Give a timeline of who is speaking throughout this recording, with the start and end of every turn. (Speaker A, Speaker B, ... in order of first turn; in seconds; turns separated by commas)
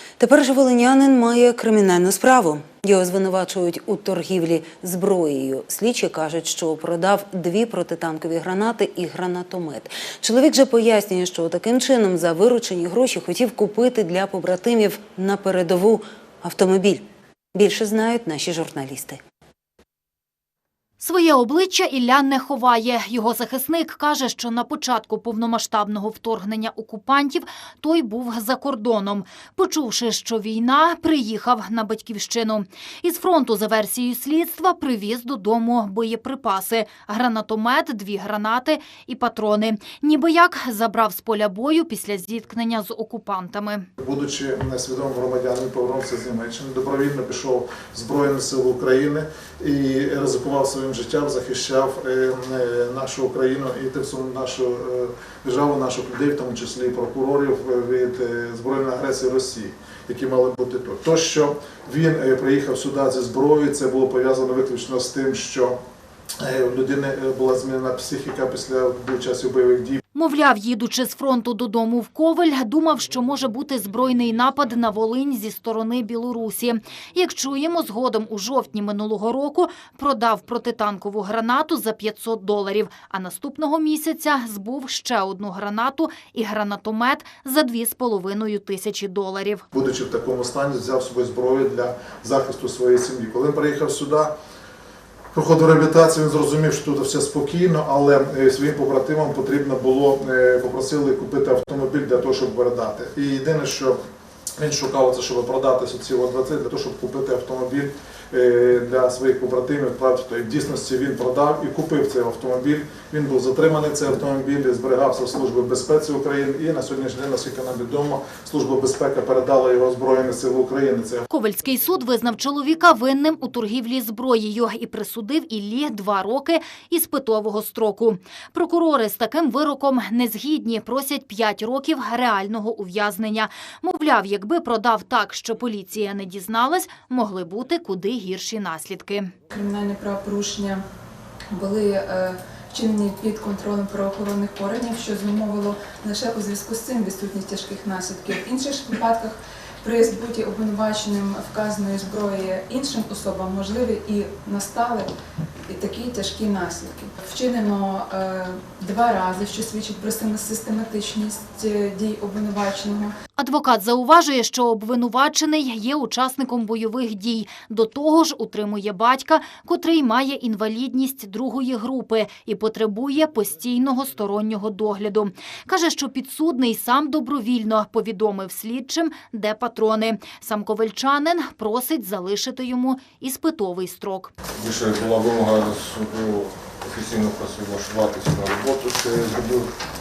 Speaker A: 0.2-19.2, Speaker B: 21.0-43.9, Speaker C: 44.0-65.8, Speaker C: 66.4-70.0, Speaker B: 70.1-89.6, Speaker C: 89.7-94.3, Speaker C: 95.3-104.0, Speaker C: 104.6-121.3, Speaker B: 121.3-139.3, Speaker D: 139.5-140.8, Speaker D: 141.5-155.1, Speaker D: 155.7-163.1, Speaker B: 163.4-184.3, Speaker E: 184.6-189.8